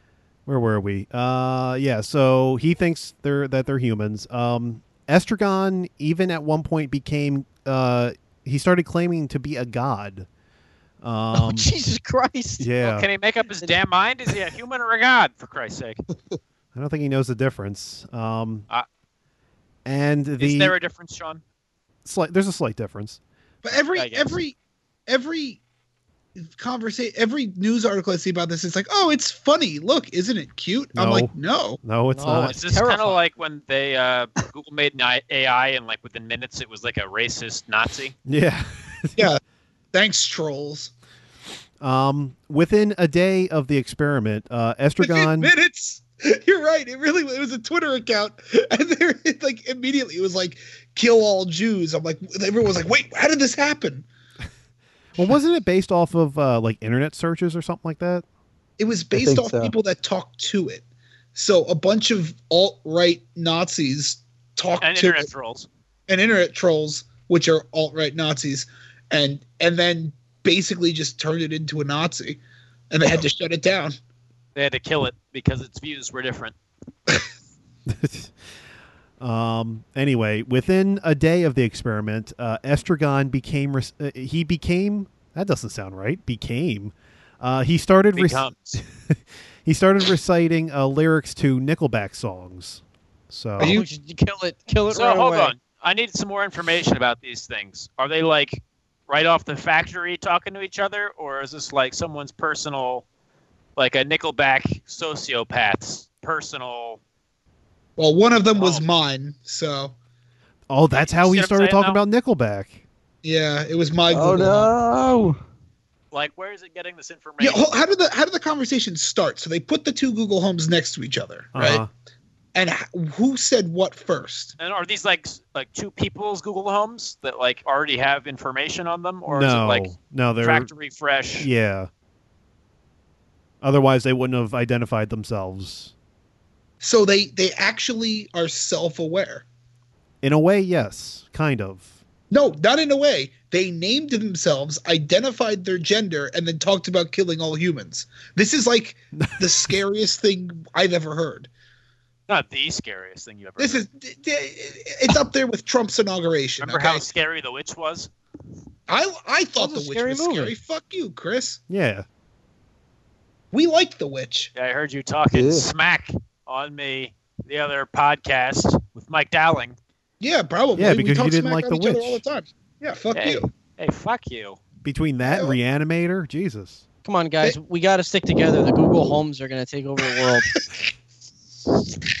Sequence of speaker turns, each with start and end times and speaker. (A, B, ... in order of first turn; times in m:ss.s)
0:00.4-0:10.3 A
0:11.0-0:11.7 A
0:11.3-0:12.7 B
0:12.6-0:13.1 A
0:12.8-0:16.0 C
0:16.7-0:18.6 A
0:19.8-0:20.7 A
0:20.4-0:21.4 C
0:22.0-0:23.2 A
0:23.6-0:24.6 D
0:23.9-0:24.4 C
0:25.1-0:25.6 D
0:26.4-0:31.8 D
0:31.0-0:32.6 A
0:32.1-0:33.2 B
0:32.3-0:38.1 C
0:38.2-0:39.3 A
0:39.9-0:40.9 D
0:41.8-0:45.5 A
0:45.0-0:54.0 D
0:55.2-0:58.2 A
0:58.8-1:00.8 D
0:59.2-0:59.7 E
1:01.3-1:05.3 D
1:04.8-1:05.7 C
1:06.1-1:14.0 D
1:14.5-1:16.6 C
1:17.9-1:18.3 A
1:19.2-1:33.8 A
1:28.1-1:28.8 C
1:33.6-1:35.5 B
1:33.6-1:33.9 D
1:34.9-1:43.0 C
1:43.8-1:47.0 C
1:48.0-1:49.9 D
1:48.5-1:48.8 C
1:50.7-1:52.8 A
1:50.9-1:52.0 C
1:53.2-1:54.7 D
1:54.1-1:55.4 E
1:56.1-1:57.7 C
1:57.4-2:01.8 D
2:01.5-2:01.9 A
2:02.5-2:04.5 D
2:04.6-2:11.5 C
2:09.3-2:10.7 A
2:11.4-2:11.9 A
2:13.6-2:15.9 A
2:16.8-2:19.4 D
2:20.2-2:21.9 A
2:22.3-2:31.5 D
2:29.2-2:29.7 A
2:32.3-2:33.8 C
2:33.6-2:37.0 D
2:36.6-2:38.1 C
2:38.9-2:41.6 D
2:39.6-2:40.5 B
2:41.7-2:42.0 A
2:43.5-2:44.5 D
2:44.6-2:49.8 C
2:45.3-2:45.6 E
2:50.2-2:53.5 D
2:50.8-2:52.2 A
2:53.1-2:54.6 C
2:54.8-2:56.8 A
2:55.2-2:55.6 D
2:57.0-3:00.5 B